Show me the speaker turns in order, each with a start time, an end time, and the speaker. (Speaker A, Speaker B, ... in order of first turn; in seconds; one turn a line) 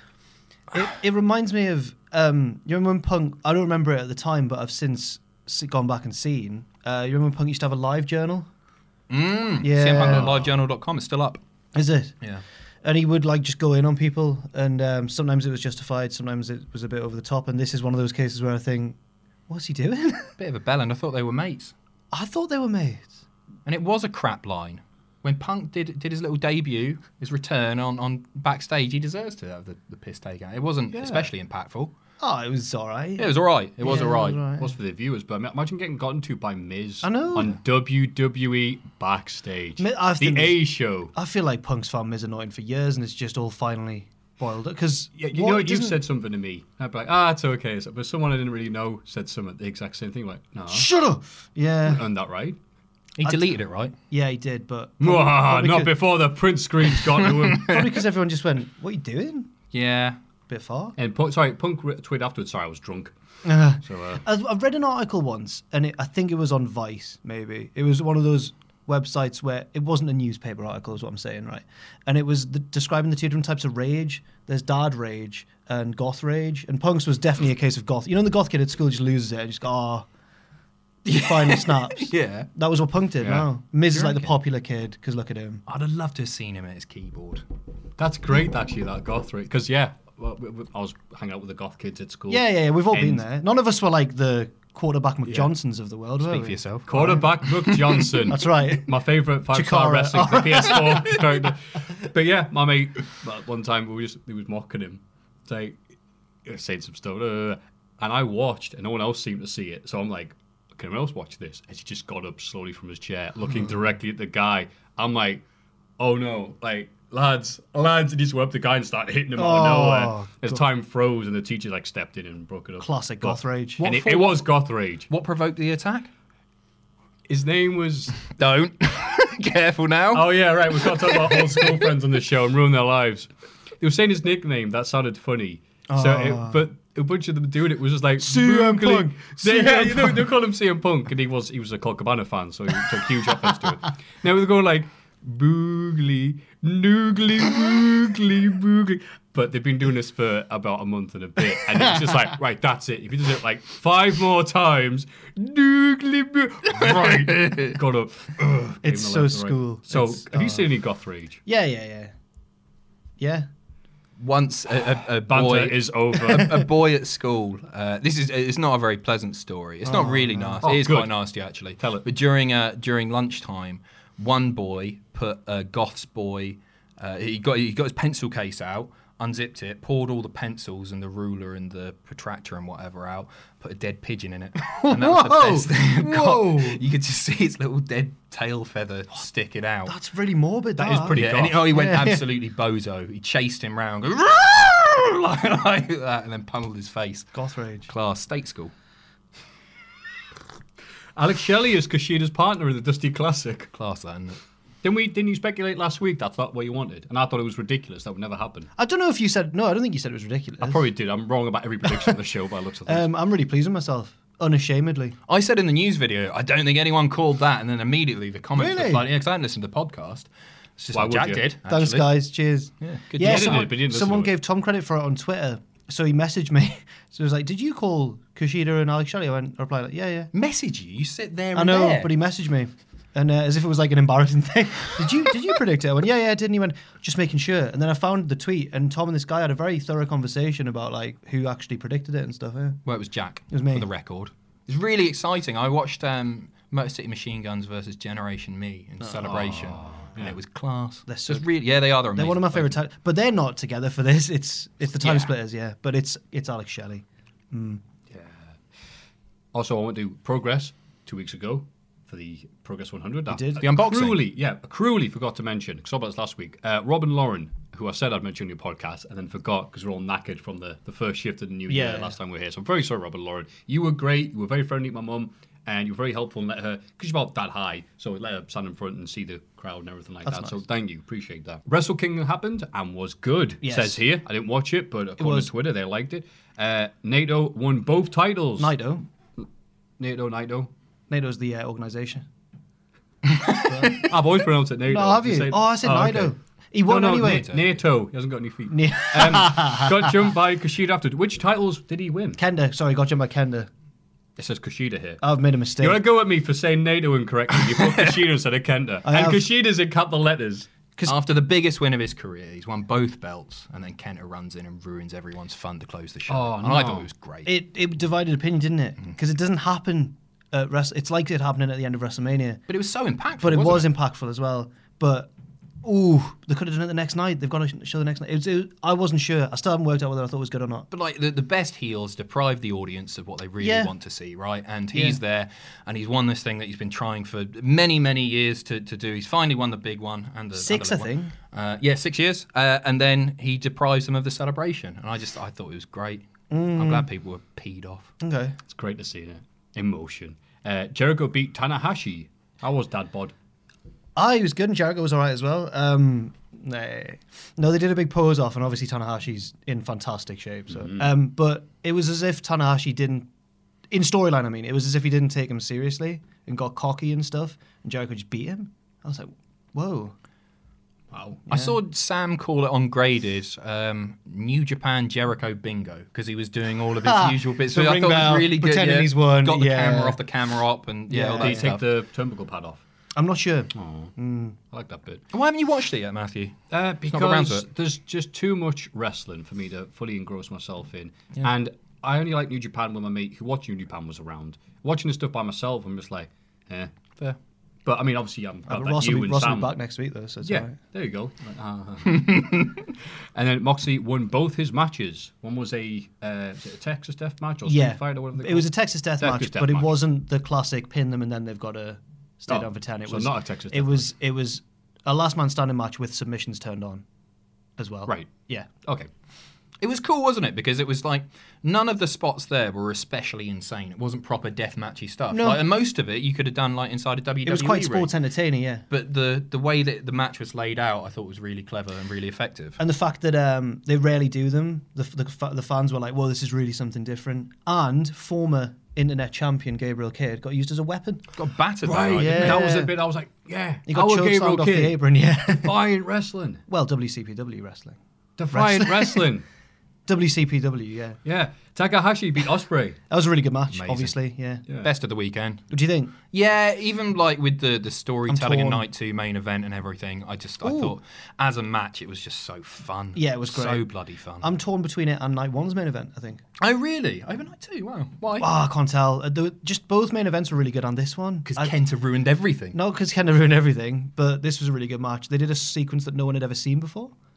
Speaker A: 0.7-8.5
Speaker B: 9.1-11.4
Speaker A: 9.6-10.4
Speaker C: 10.1-10.5
Speaker A: 11.7-12.2
Speaker A: 12.8-19.0
Speaker A: 19.5-20.3
Speaker B: 20.4-21.7
Speaker A: 22.1-23.2
Speaker B: 23.6-31.9
Speaker A: 32.2-34.8
Speaker B: 33.2-34.4
Speaker C: 34.6-41.1
Speaker A: 37.0-37.6
Speaker A: 39.8-40.6
Speaker A: 41.1-46.0
Speaker C: 45.2-50.9
Speaker A: 50.7-52.0
Speaker C: 51.8-52.6
Speaker B: 53.2-53.9
Speaker A: 53.2-53.5
Speaker A: 54.1-55.9
Speaker C: 55.0-57.8
Speaker B: 57.4-57.8
Speaker A: 57.6-59.5
Speaker B: 59.7-60.2
Speaker A: 60.5-60.9
Speaker C: 61.0-63.1
Speaker A: 63.4-80.1
Speaker C: 63.8-64.2
Speaker B: 81.0-82.5
Speaker A: 81.1-85.6
Speaker B: 83.3-84.3
Speaker B: 85.7-87.4
Speaker C: 88.0-93.2
Speaker A: 92.3-97.2
Speaker B: 96.2-98.3
Speaker C: 96.9-105.8
Speaker A: 98.3-98.9
Speaker A: 99.5-101.2
Speaker C: 106.5-115.4
Speaker C: 116.0-125.1
Speaker A: 119.4-120.6
Speaker A: 122.8-123.8
Speaker B: 123.8-124.5
Speaker B: 125.1-126.1
Speaker C: 127.3-128.2
Speaker B: 128.2-131.9
Speaker C: 130.1-133.3
Speaker C: 133.8-161.4
Speaker A: 135.9-136.6
Speaker A: 138.2-140.2
Speaker B: 156.7-157.8
Speaker A: 158.8-160.7
Speaker A: 161.4-162.1
Speaker A: 163.2-163.5
Speaker B: 164.2-189.9
Speaker C: 165.3-166.6
Speaker A: 169.8-170.6
Speaker C: 170.6-171.2
Speaker C: 171.8-172.1
Speaker A: 184.6-186.8
Speaker A: 189.8-192.2
Speaker C: 190.8-191.7
Speaker B: 191.1-197.3
Speaker A: 197.3-197.9
Speaker B: 197.8-198.7
Speaker C: 201.2-203.7
Speaker B: 203.7-204.4
Speaker C: 204.8-208.7
Speaker A: 208.8-210.8
Speaker C: 210.6-213.1
Speaker A: 212.9-215.2
Speaker B: 215.3-222.1
Speaker A: 218.6-219.1
Speaker C: 220.9-221.5
Speaker A: 221.7-230.3
Speaker B: 222.8-223.7
Speaker C: 223.2-224.3
Speaker B: 230.3-232.1
Speaker A: 231.5-242.8
Speaker B: 242.8-252.8
Speaker A: 243.5-243.9
Speaker C: 249.2-250.3
Speaker A: 251.1-251.5
Speaker A: 252.1-257.8
Speaker C: 259.5-288.7
Speaker A: 263.3-263.6
Speaker B: 263.6-264.2
Speaker A: 271.7-272.1
Speaker A: 280.2-280.6
Speaker A: 283.6-284.0
Speaker A: 285.2-285.5
Speaker A: 288.6-289.0
Speaker C: 290.0-290.7
Speaker A: 291.1-292.2
Speaker B: 293.2-294.0
Speaker A: 293.7-294.0
Speaker C: 294.0-296.3
Speaker A: 294.9-297.5
Speaker C: 296.9-302.4
Speaker B: 297.2-297.6
Speaker A: 298.7-300.1
Speaker A: 302.4-303.7
Speaker C: 304.4-305.2
Speaker A: 305.2-306.0
Speaker C: 305.8-310.7
Speaker A: 309.0-309.4
Speaker B: 311.0-317.5
Speaker C: 316.3-317.1
Speaker A: 317.4-322.6
Speaker B: 322.7-323.9
Speaker A: 323.4-325.3
Speaker A: 325.8-330.9
Speaker B: 330.9-348.1
Speaker A: 333.6-333.9
Speaker A: 334.9-335.2
Speaker A: 340.5-341.3
Speaker A: 346.5-347.1
Speaker A: 348.2-348.5
Speaker C: 348.7-353.3
Speaker A: 354.1-363.3
Speaker C: 360.7-361.0
Speaker A: 363.9-370.1
Speaker C: 371.1-371.4
Speaker A: 371.4-371.7
Speaker B: 371.5-381.8
Speaker A: 377.0-380.2
Speaker A: 381.1-381.7
Speaker C: 381.4-382.8
Speaker A: 383.1-384.6
Speaker C: 383.7-384.1
Speaker C: 384.7-385.2
Speaker B: 385.3-387.7
Speaker C: 386.7-396.9
Speaker C: 397.9-399.8
Speaker A: 398.7-400.7
Speaker C: 400.4-402.7
Speaker B: 402.1-402.6
Speaker C: 403.3-409.9
Speaker A: 407.6-417.0
Speaker C: 412.5-414.1
Speaker A: 417.8-418.7
Speaker C: 418.8-419.1
Speaker B: 419.8-428.1
Speaker A: 425.3-425.6
Speaker A: 427.4-428.8
Speaker B: 428.9-432.8
Speaker A: 432.8-441.2
Speaker B: 441.3-442.6
Speaker C: 441.8-446.6
Speaker A: 442.1-442.9
Speaker A: 443.9-445.7
Speaker A: 446.7-448.0
Speaker C: 448.4-449.4
Speaker A: 448.5-449.3
Speaker A: 450.1-451.2
Speaker C: 451.2-453.0
Speaker A: 453.1-454.6
Speaker B: 454.8-455.7
Speaker A: 455.7-456.1
Speaker B: 456.2-464.5
Speaker A: 458.3-458.8
Speaker A: 460.6-460.9
Speaker A: 463.1-463.9
Speaker A: 464.4-466.4
Speaker B: 466.6-468.5
Speaker A: 468.4-471.8
Speaker B: 471.4-472.8
Speaker A: 472.7-477.1